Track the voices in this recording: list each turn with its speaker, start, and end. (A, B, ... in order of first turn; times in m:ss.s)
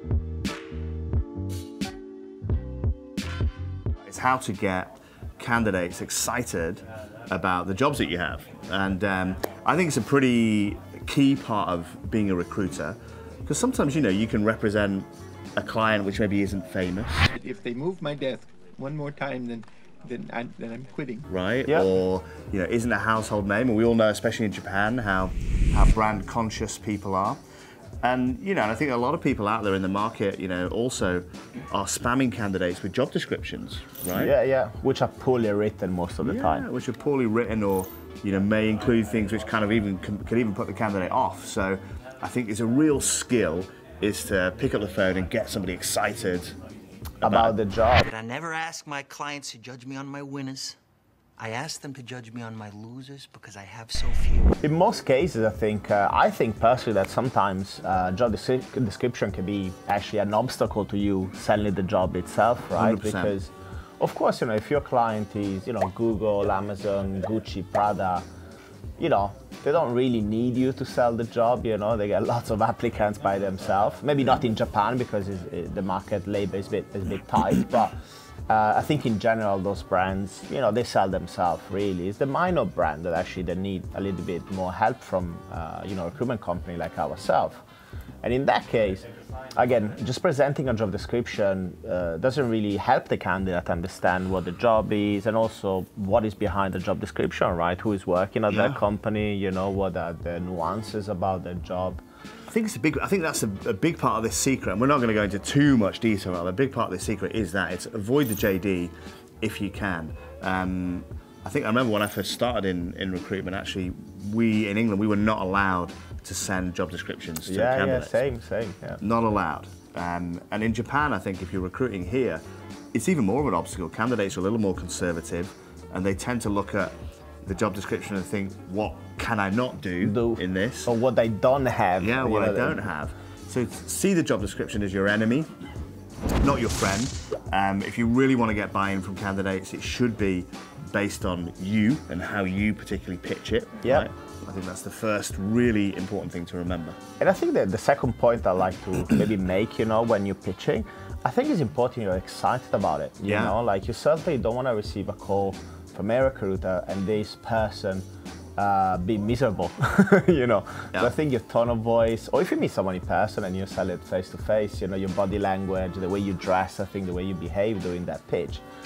0:04.0-0:17.2 A
0:17.3-0:21.2 B
0:21.3-0:27.4 A
0:28.0-0:34.3 A
0:34.1-0:36.6 C
0:36.2-0:46.6 A
0:47.2-0:47.6 A
0:47.2-0:48.1 C
0:48.0-0:50.8 D
0:51.4-0:54.6 D
0:54.6-1:08.2 C
1:02.7-1:03.3 A
1:09.0-1:17.9 C
1:18.5-1:27.6 C
1:28.2-1:42.0 C
1:38.5-1:38.8 A
1:42.5-1:58.1 A
1:57.4-1:59.0 C
1:59.0-2:02.4 A
2:02.9-2:10.9 A
2:10.0-2:12.8 C
2:12.0-2:15.5 A
2:16.4-2:27.0 A
2:23.8-2:24.1 C
2:27.2-2:38.0 C
2:33.2-2:33.6 A
2:38.6-2:48.6 C